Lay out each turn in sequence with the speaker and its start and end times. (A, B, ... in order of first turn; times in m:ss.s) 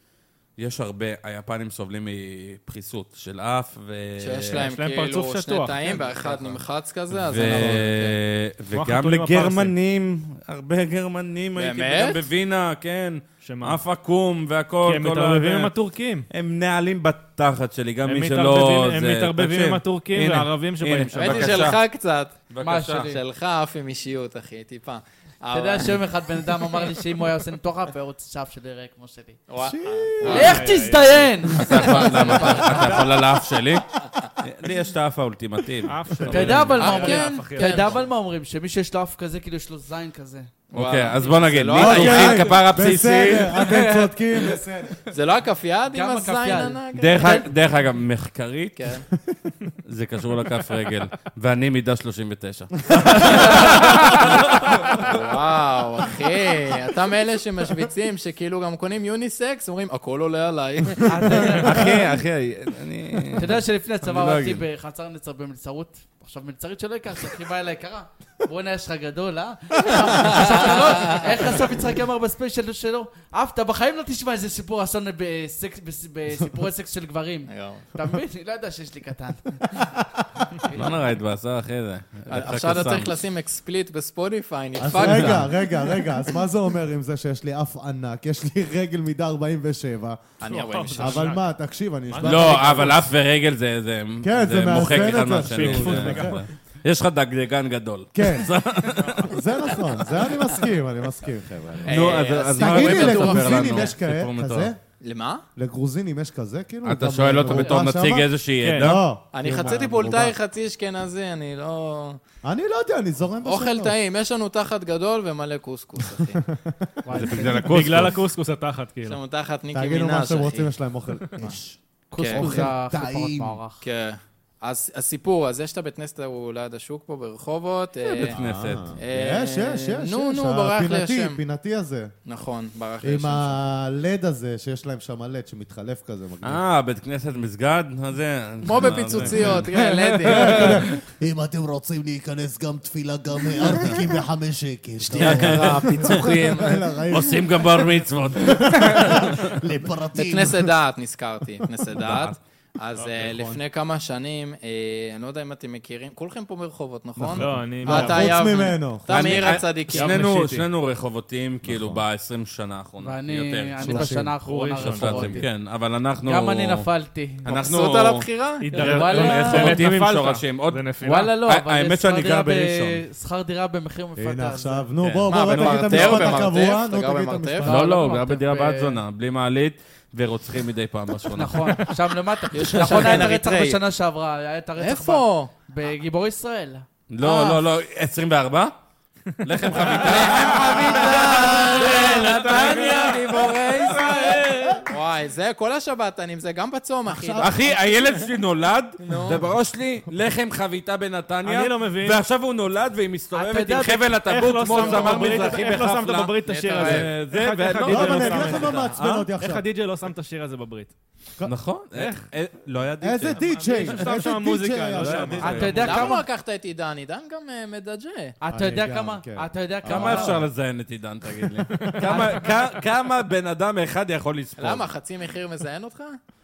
0:00.6-0:04.7 A
0:04.2-0:08.2 B
0:04.5-0:06.6 C
0:07.1-0:15.7 A
0:07.4-0:07.7 C
0:08.7-0:09.7 C
0:11.6-0:12.2 B
0:13.4-0:13.8 C
0:14.8-0:16.3 C
0:16.3-0:21.8 A
0:18.0-0:21.7 C
0:21.1-0:26.8 B
0:22.5-0:23.1 A
0:22.6-0:23.2 D
0:25.5-0:29.4 D
0:29.5-0:30.6 B
0:29.6-0:30.5 E
0:30.2-0:31.5 C
0:30.3-0:33.1 D
0:31.5-0:36.8 A
0:35.8-0:38.0 C
0:36.2-0:40.5 D
0:36.8-0:38.0 B
0:40.7-0:42.6 B
0:40.7-0:43.8 A
0:41.7-0:45.0 E
0:43.7-0:44.1 D
0:45.1-0:47.5 B
0:45.9-0:47.4 D
0:46.9-0:49.0 A
0:48.8-0:49.0 B
0:49.8-0:55.2 A
0:55.0-1:01.8 B
1:01.0-1:02.0 D
1:01.6-1:04.6 A
1:03.3-1:19.8 D
1:10.2-1:11.2 B
1:17.5-1:17.8 B
1:20.0-1:20.5 E
1:20.6-1:20.9 D
1:20.7-1:23.2 A
1:22.3-1:26.1 B
1:24.8-1:30.3 E
1:24.9-1:25.4 A
1:30.4-1:31.3 B
1:30.4-1:31.4 C
1:31.0-1:33.0 E
1:32.1-1:32.9 C
1:32.2-1:39.4 A
1:34.2-1:36.4 E
1:34.7-1:36.4 C
1:38.1-1:38.6 E
1:39.2-1:44.8 E
1:41.8-1:43.9 B
1:41.8-1:44.7 A
1:45.0-1:45.4 B
1:45.6-1:50.4 E
1:46.8-1:49.0 A
1:48.6-1:49.0 C
1:49.3-1:52.2 B
1:52.4-1:54.0 E
1:53.4-1:56.4 B
1:56.0-1:57.5 E
1:57.0-1:57.7 D
1:57.1-1:58.2 A
1:57.6-1:59.2 C
1:59.0-2:00.7 B
1:59.7-2:03.6 E
2:02.1-2:03.8 D
2:02.1-2:02.6 B
2:03.8-2:08.4 B
2:08.0-2:09.0 A
2:08.3-2:12.1 E
2:09.0-2:11.4 B
2:12.2-2:13.6 B
2:13.0-2:16.6 E
2:16.4-2:20.9 A
2:18.6-2:20.9 B
2:19.2-2:19.6 E
2:20.2-2:30.7 E
2:25.1-2:26.9 B
2:25.2-2:26.4 A
2:27.1-2:29.5 A
2:30.1-2:40.6 B
2:32.0-2:32.4 A
2:33.0-2:33.2 C
2:33.3-2:33.6 E
2:37.2-2:39.4 E
2:37.3-2:38.3 C
2:39.1-2:44.3 A
2:39.9-2:40.6 C
2:41.6-2:42.0 E
2:43.0-2:45.5 D
2:43.8-2:44.4 E
2:44.4-2:45.4 C
2:44.8-2:46.9 A
2:46.2-2:47.4 D
2:47.4-2:48.3 A
2:47.5-2:48.8 B
2:48.6-2:51.3 C
2:48.7-2:49.9 D
2:48.8-2:53.0 A
2:51.0-2:54.9 D
2:54.2-2:57.7 E
2:55.0-2:56.6 A
2:55.3-2:57.7 B
2:57.6-2:59.0 D
2:57.6-3:01.9 A
3:01.3-3:06.8 D
3:02.5-3:03.8 B
3:02.8-3:03.2 A
3:04.8-3:05.5 B
3:07.1-3:08.7 A
3:07.2-3:07.6 B
3:09.4-3:10.2 C
3:09.4-3:14.9 A
3:09.9-3:18.3 B
3:14.4-3:14.8 E
3:17.1-3:17.7 E
3:17.4-3:29.3 A
3:19.0-3:19.4 B
3:21.4-3:22.2 C
3:23.3-3:24.1 D
3:24.1-3:31.0 C
3:24.7-3:25.7 B
3:26.4-3:27.1 B
3:27.8-3:29.6 E
3:31.4-3:34.0 A
3:31.9-3:32.2 C
3:33.0-3:36.1 E
3:33.4-3:36.0 C
3:34.9-3:36.1 A
3:35.4-3:36.2 D
3:35.8-3:38.3 B
3:38.4-3:40.4 D
3:38.5-3:40.5 E
3:39.8-3:44.9 A
3:41.8-3:42.2 C
3:44.6-3:46.2 B